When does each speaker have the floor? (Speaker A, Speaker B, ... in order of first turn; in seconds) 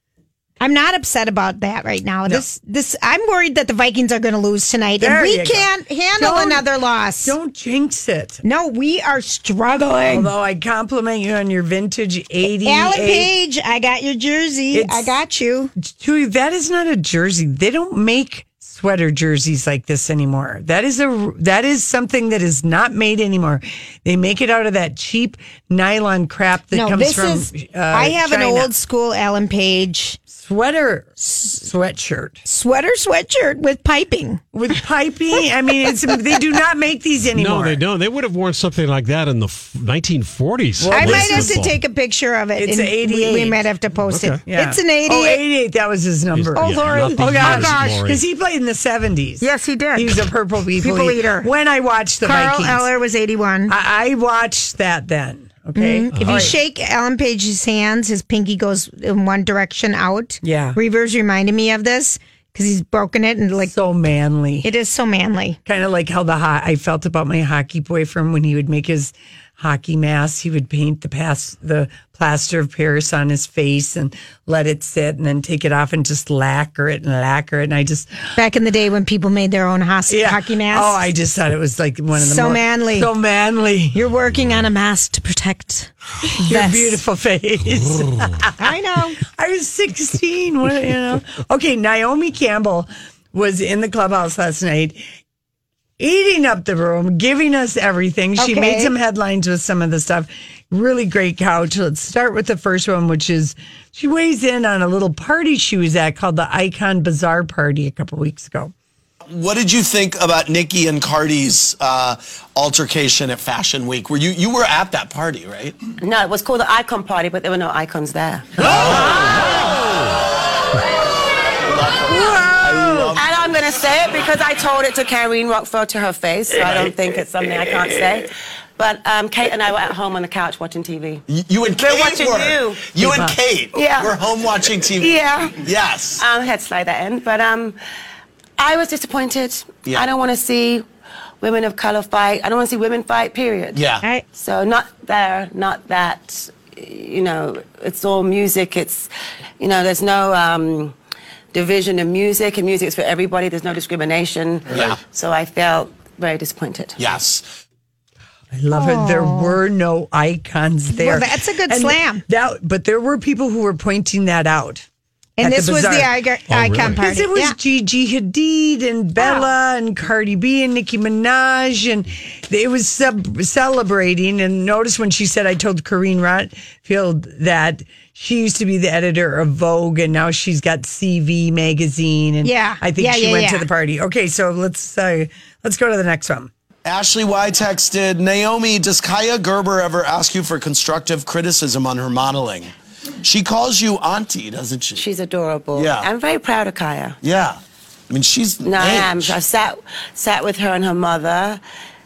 Speaker A: 0.6-7.4, 8.4-10.3, 12.7-15.7, 26.7-30.2, 32.5-34.4, 40.9-45.4, 46.6-48.1, 49.4-50.2, 50.8-51.5, 52.2-53.7, 55.8-63.7, 64.6-65.6, 78.3-81.0, 82.2-83.1, 83.9-87.0, 88.6-89.2, 98.4-98.9, 158.7-159.6, 161.0-162.2, 165.4-167.6, 169.2-169.5, 182.4-183.7
Speaker B: 5.0-6.7, 7.2-8.4, 10.1-13.3, 14.7-15.2, 15.8-28.7, 30.3-32.4, 34.5-37.8, 40.8-41.6, 42.6-43.6, 44.4-52.9, 53.7-56.6, 60.4-60.8, 63.6-64.7, 65.7-78.3, 80.1-84.0, 86.4-95.0, 96.0-108.7, 118.6-119.5, 122.1-123.2, 133.0-133.3, 158.5-164.8, 165.4-166.1, 166.8-186.5
Speaker C: 37.3-41.8, 44.1-44.4, 46.3-48.2, 56.1-56.5, 166.5-167.0
Speaker D: 109.3-115.8, 118.6-119.9, 121.6-123.2, 126.6-126.9, 131.3-136.2, 143.7-144.1, 154.7-155.0, 157.0-157.5, 186.8-195.0, 195.7-196.1, 197.2-197.6, 198.1-199.4
Speaker E: 116.0-118.7, 123.2-133.2, 133.7-134.2, 134.9-135.6, 136.2-137.8, 138.6-140.8, 141.4-143.8, 144.3-149.1, 149.6-150.9, 151.5-157.0, 195.0-197.2, 198.6-201.6